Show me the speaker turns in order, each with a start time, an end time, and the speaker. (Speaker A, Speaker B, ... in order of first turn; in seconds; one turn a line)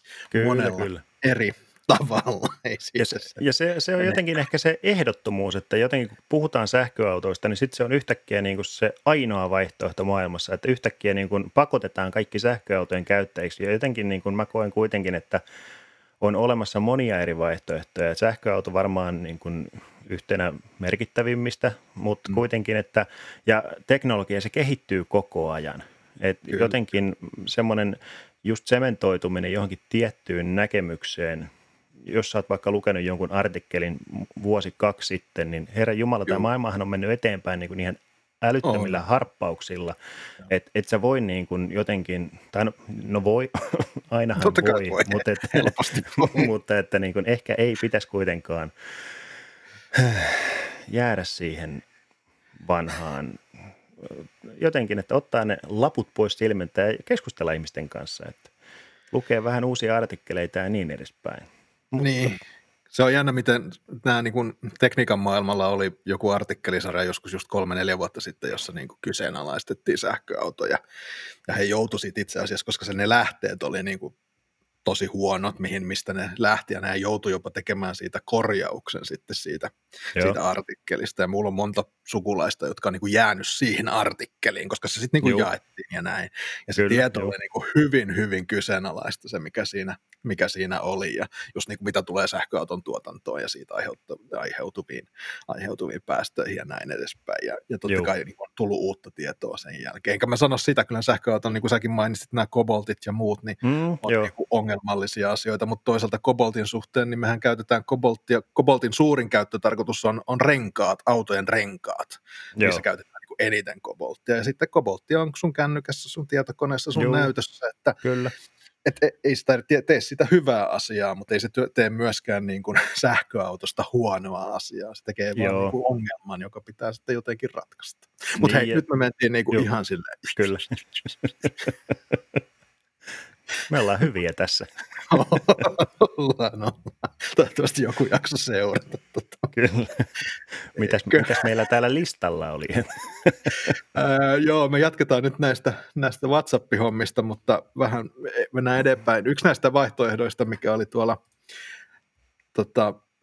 Speaker A: 0.3-3.4
Speaker B: 0.3-1.0
Speaker B: 3.0-15.4
Speaker B: 16.2-31.5
Speaker A: 26.5-26.8
Speaker B: 32.0-40.0
Speaker A: 38.6-39.0
Speaker B: 40.5-48.7
Speaker A: 44.4-46.5
Speaker B: 49.9-51.8
Speaker B: 52.6-53.5
Speaker B: 54.0-58.5
Speaker B: 59.1-62.1
Speaker A: 62.0-62.4
Speaker A: 62.9-70.8
Speaker A: 71.5-74.1
Speaker A: 74.8-118.0
Speaker B: 85.2-85.5
Speaker B: 86.8-87.3
Speaker B: 103.6-104.3
Speaker B: 112.6-112.8
Speaker B: 116.9-117.3
Speaker B: 118.0-118.3
Speaker A: 118.8-130.8
Speaker B: 125.3-125.7
Speaker B: 128.4-128.8
Speaker B: 130.4-132.4
Speaker B: 133.7-135.6
Speaker A: 135.1-139.5
Speaker B: 139.5-140.1
Speaker B: 140.7-143.7
Speaker A: 140.8-141.4
Speaker A: 143.9-151.2
Speaker A: 152.5-153.0